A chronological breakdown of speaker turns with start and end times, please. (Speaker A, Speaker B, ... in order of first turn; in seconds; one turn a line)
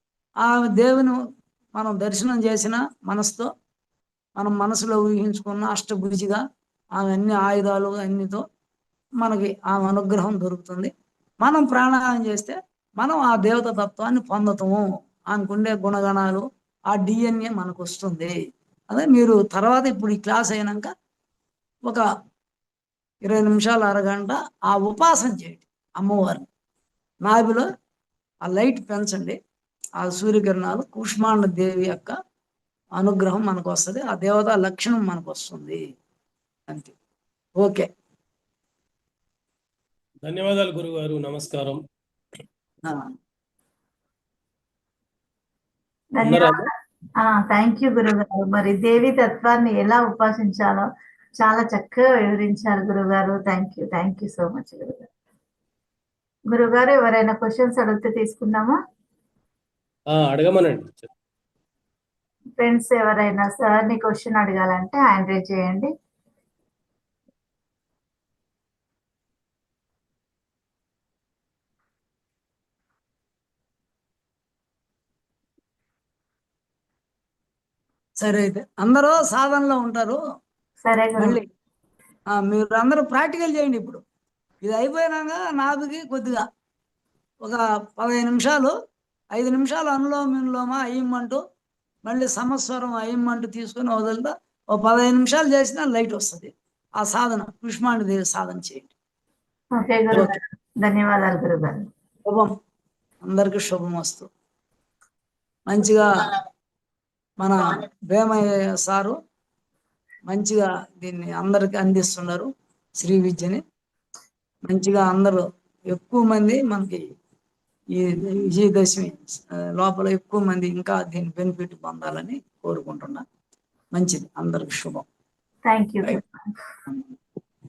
Speaker A: 0.4-1.2
Speaker A: 1.7-3.5
Speaker A: 4.4-6.4
Speaker A: 7.0-8.4
Speaker A: 9.2-10.9
Speaker A: 11.4-18.4
Speaker A: 18.9-20.9
Speaker A: 23.2-26.4
Speaker A: 27.2-27.6
Speaker A: 28.4-29.4
Speaker A: 30.0-32.1
Speaker A: 33.0-35.8
Speaker A: 37.6-37.9
Speaker B: 40.2-41.8
Speaker A: 42.9-43.1
Speaker C: 46.1-46.6
Speaker B: 46.2-46.6
Speaker C: 47.2-50.9
Speaker C: 51.4-55.1
Speaker C: 56.5-58.8
Speaker B: 60.1-61.1
Speaker C: 62.6-65.9
Speaker A: 78.2-80.2
Speaker C: 80.8-81.4
Speaker A: 81.2-81.4
Speaker A: 82.3-84.0
Speaker A: 84.6-86.4
Speaker A: 87.5-88.7
Speaker A: 89.3-91.4
Speaker A: 92.1-98.9
Speaker C: 99.7-101.9
Speaker A: 102.2-102.5
Speaker A: 103.2-104.3
Speaker A: 105.7-106.1
Speaker A: 107.4-109.2
Speaker A: 110.3-112.5
Speaker A: 113.0-113.6
Speaker A: 114.7-117.0
Speaker A: 117.9-123.2
Speaker A: 123.9-125.0
Speaker C: 125.6-126.5